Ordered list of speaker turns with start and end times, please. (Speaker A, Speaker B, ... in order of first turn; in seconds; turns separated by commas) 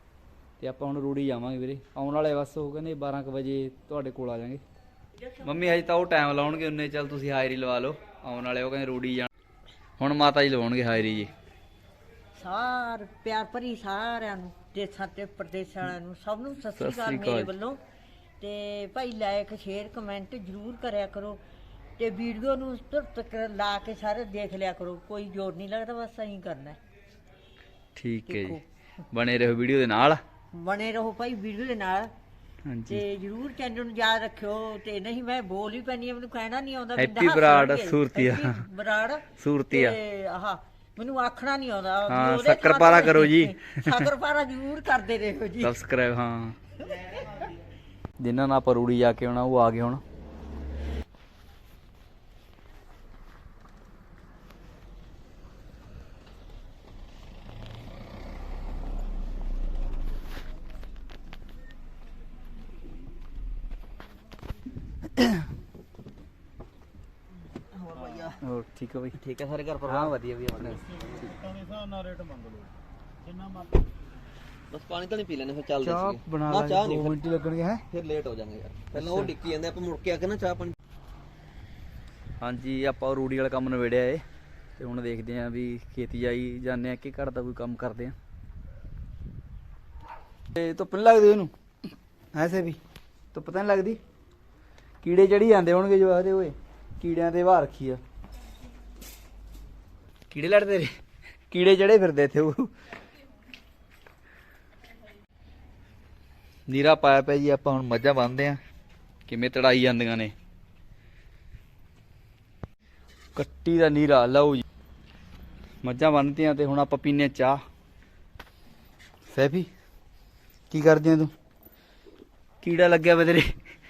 Speaker A: 0.6-4.6, Speaker A: 5.4-9.3, Speaker A: 10.0-11.3, Speaker B: 12.4-17.8, Speaker A: 16.8-17.5, Speaker B: 18.4-21.4, Speaker B: 22.0-26.8, Speaker A: 27.9-28.6, Speaker B: 28.3-28.6, Speaker A: 29.1-30.2, Speaker B: 30.5-32.1, Speaker A: 32.6-33.0, Speaker B: 32.9-45.7, Speaker A: 36.9-38.5, Speaker A: 39.4-40.0, Speaker A: 42.1-44.0, Speaker A: 45.6-46.5, Speaker A: 48.2-50.0, Speaker C: 67.8-68.3, Speaker A: 68.4-69.2, Speaker C: 69.2-71.4, Speaker A: 69.9-70.8, Speaker C: 74.7-77.2, Speaker A: 75.8-77.8, Speaker C: 77.9-80.8, Speaker A: 78.9-79.3, Speaker A: 82.4-84.2, Speaker A: 84.8-88.1, Speaker A: 90.5-91.5, Speaker A: 92.3-92.8, Speaker A: 93.3-94.0, Speaker A: 95.0-98.0, Speaker A: 100.3-100.9, Speaker A: 101.5-102.7, Speaker A: 106.7-108.6, Speaker A: 109.3-110.3, Speaker A: 113.3-114.6, Speaker A: 115.8-117.6, Speaker A: 119.3-119.7, Speaker A: 120.7-121.3, Speaker A: 122.6-123.5